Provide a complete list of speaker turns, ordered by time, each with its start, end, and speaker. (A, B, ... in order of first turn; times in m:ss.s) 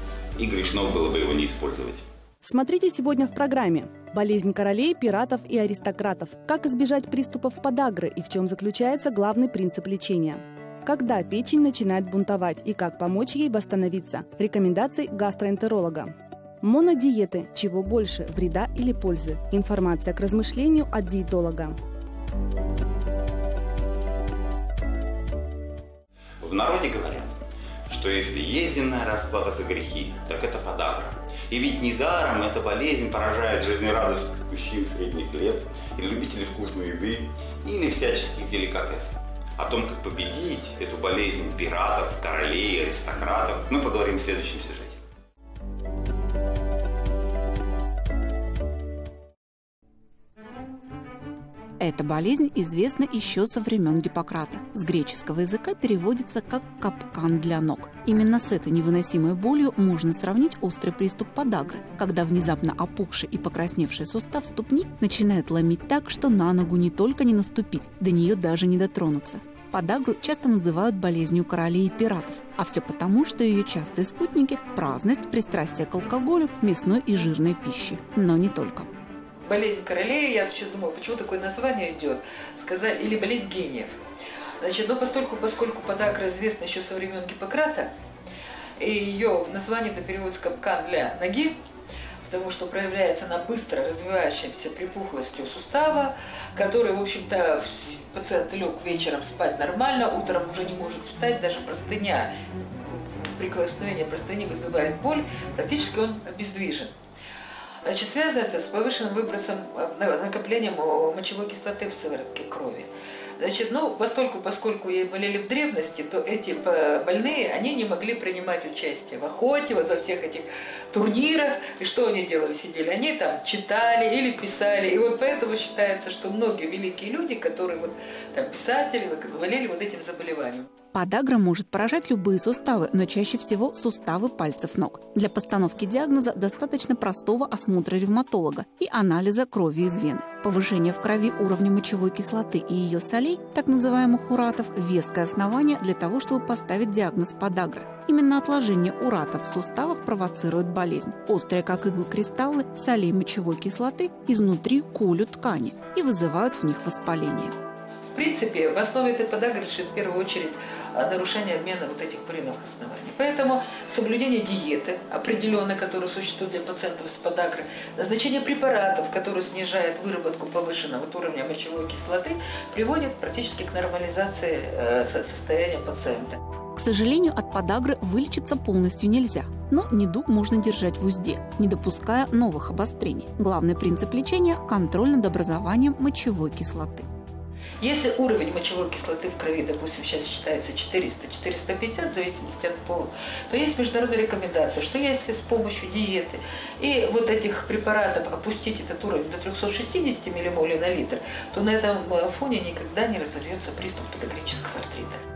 0:00.4-0:02.1 A
0:02.4-0:21.8 B
0:26.4-0:45.0 A
0:51.8-1:18.9 C
1:19.5-1:24.0 D
1:24.6-1:27.9 D
1:28.8-1:31.6 D
1:32.2-1:42.3 D
1:42.8-1:46.9 D
1:47.8-2:10.7 D
2:10.9-2:37.6 C
2:38.1-2:56.4 D
2:56.8-3:07.1 C
3:07.8-3:25.2 D